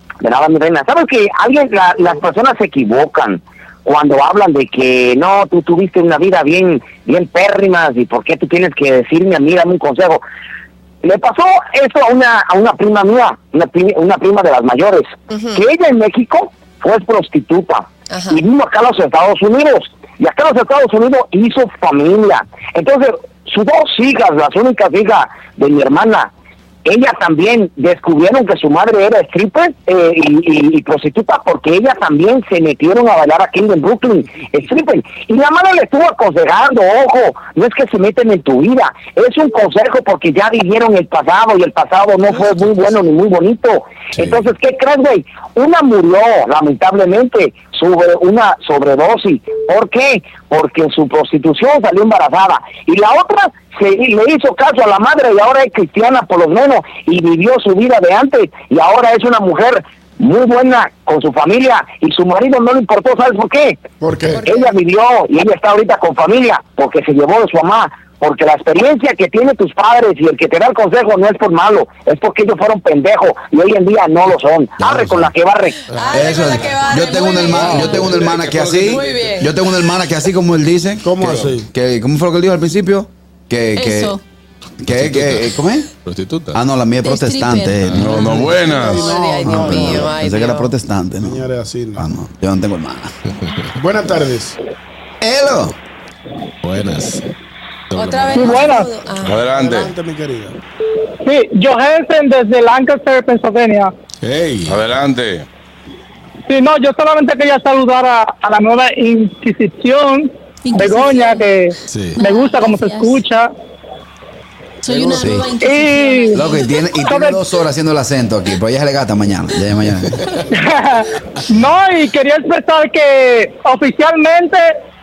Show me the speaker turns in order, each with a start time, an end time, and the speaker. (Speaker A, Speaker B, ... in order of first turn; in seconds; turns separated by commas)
Speaker A: 0.2-10.2, Speaker A: 11.0-26.3, Speaker B: 15.3-15.7, Speaker B: 18.1-18.4, Speaker A: 26.9-63.8, Speaker C: 64.0-64.4, Speaker B: 64.2-64.8, Speaker A: 64.4-75.8, Speaker D: 74.8-75.3, Speaker B: 75.9-78.2, Speaker E: 75.9-79.4, Speaker D: 76.1-84.2, Speaker B: 78.8-79.5, Speaker C: 81.0-81.7, Speaker E: 81.2-81.6, Speaker F: 83.8-84.2, Speaker D: 84.8-85.9, Speaker E: 84.8-86.6, Speaker D: 86.5-88.5, Speaker F: 87.0-88.5, Speaker E: 87.8-88.2, Speaker G: 87.9-89.1, Speaker C: 88.5-90.0, Speaker B: 88.8-90.7, Speaker D: 89.4-93.1, Speaker C: 91.2-92.0, Speaker E: 93.3-94.2, Speaker C: 93.8-94.6, Speaker D: 95.2-95.8, Speaker E: 96.6-97.3, Speaker E: 97.9-98.6, Speaker B: 97.9-99.7, Speaker H: 98.3-98.9, Speaker G: 99.2-99.9, Speaker C: 99.5-100.5, Speaker H: 101.2-103.9, Speaker E: 104.2-104.8, Speaker G: 104.7-105.5, Speaker H: 106.5-113.5, Speaker F: 110.6-111.6, Speaker E: 111.9-112.2, Speaker F: 112.2-113.3, Speaker F: 114.8-116.7, Speaker D: 115.0-115.6, Speaker H: 115.6-117.4, Speaker D: 116.3-120.2, Speaker H: 120.5-124.8